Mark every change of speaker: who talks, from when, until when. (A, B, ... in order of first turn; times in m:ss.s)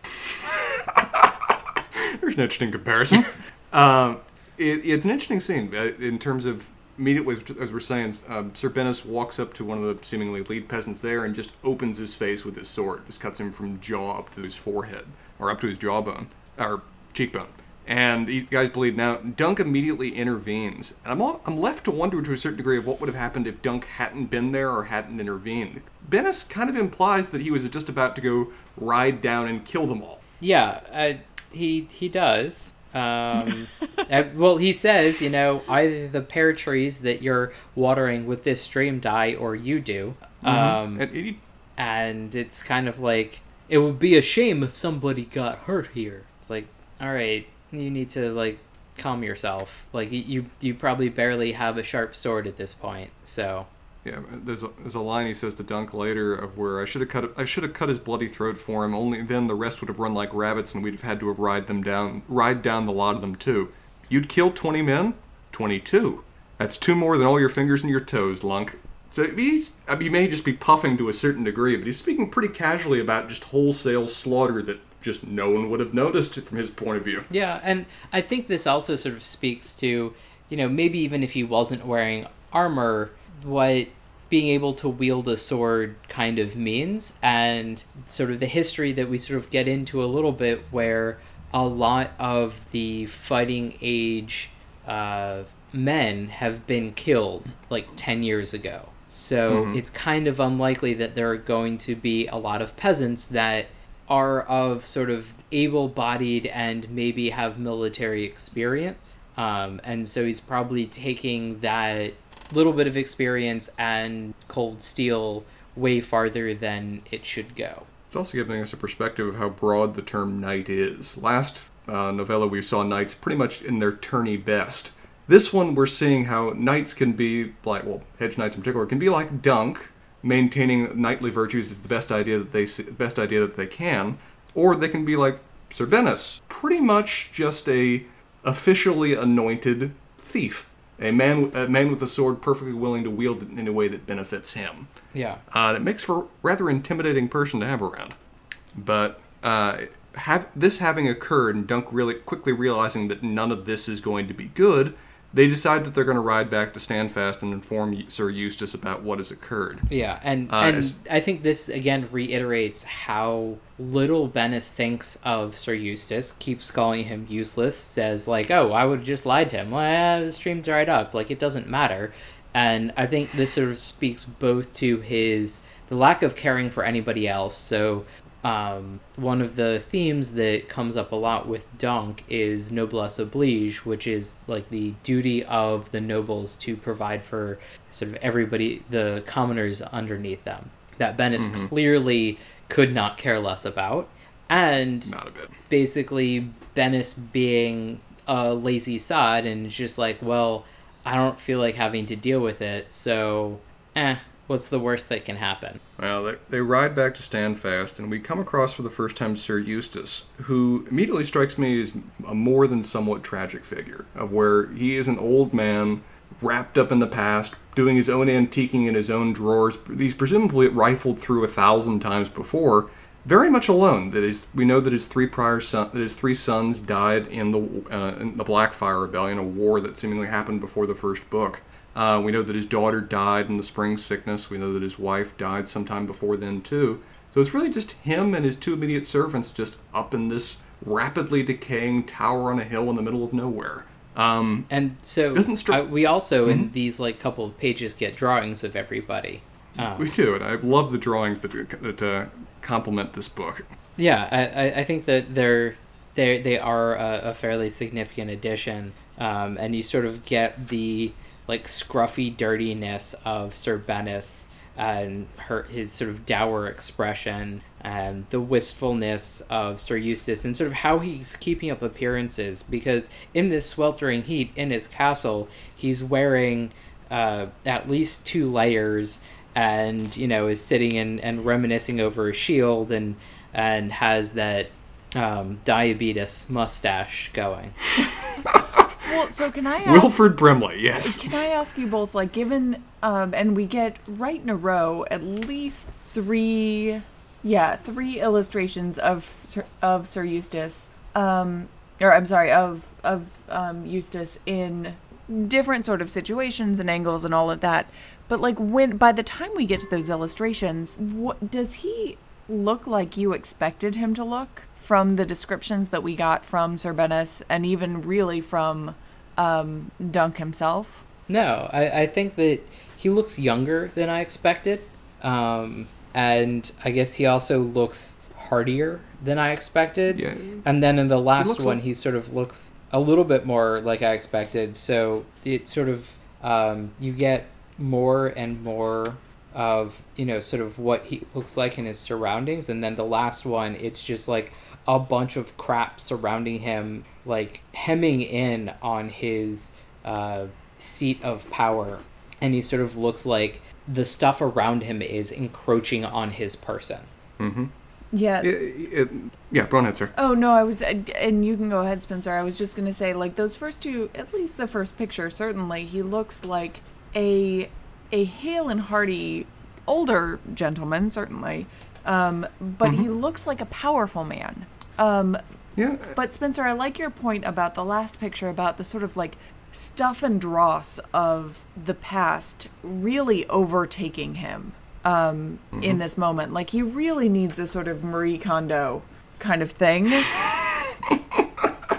0:00.3-0:30.2 A
0:30.4-0:41.0 B
0:40.4-0:41.4 A
0:41.8-0:53.7 B
0:54.0-1:17.3 A
1:17.3-1:57.9 B
1:39.5-1:39.8 A
1:58.1-2:24.9 A
2:25.1-2:25.4 B
2:25.5-2:28.2 A
2:28.7-2:39.9 A
2:39.9-3:25.8 B
2:40.5-2:41.0 A
3:11.4-3:11.7 A
3:15.0-3:15.5 A
3:26.0-4:04.7 A
4:04.7-4:10.1 B
4:05.3-4:05.8 A
4:06.4-4:06.7 A
4:09.8-4:13.7 A
4:14.0-4:47.7 B
4:48.4-4:49.0 A
4:49.0-4:50.3 C
4:49.8-4:51.3 A
4:51.0-5:21.0 C
5:21.3-5:57.1 B
5:30.1-5:30.6 A
5:31.4-5:31.8 A
5:57.4-5:57.7 A
5:58.1-5:58.5 C
5:58.4-6:00.1 A
6:00.1-6:15.4 C
6:12.8-6:13.1 A
6:15.8-6:16.2 A
6:16.1-6:30.3 C
6:25.7-6:26.0 A
6:31.1-6:31.7 A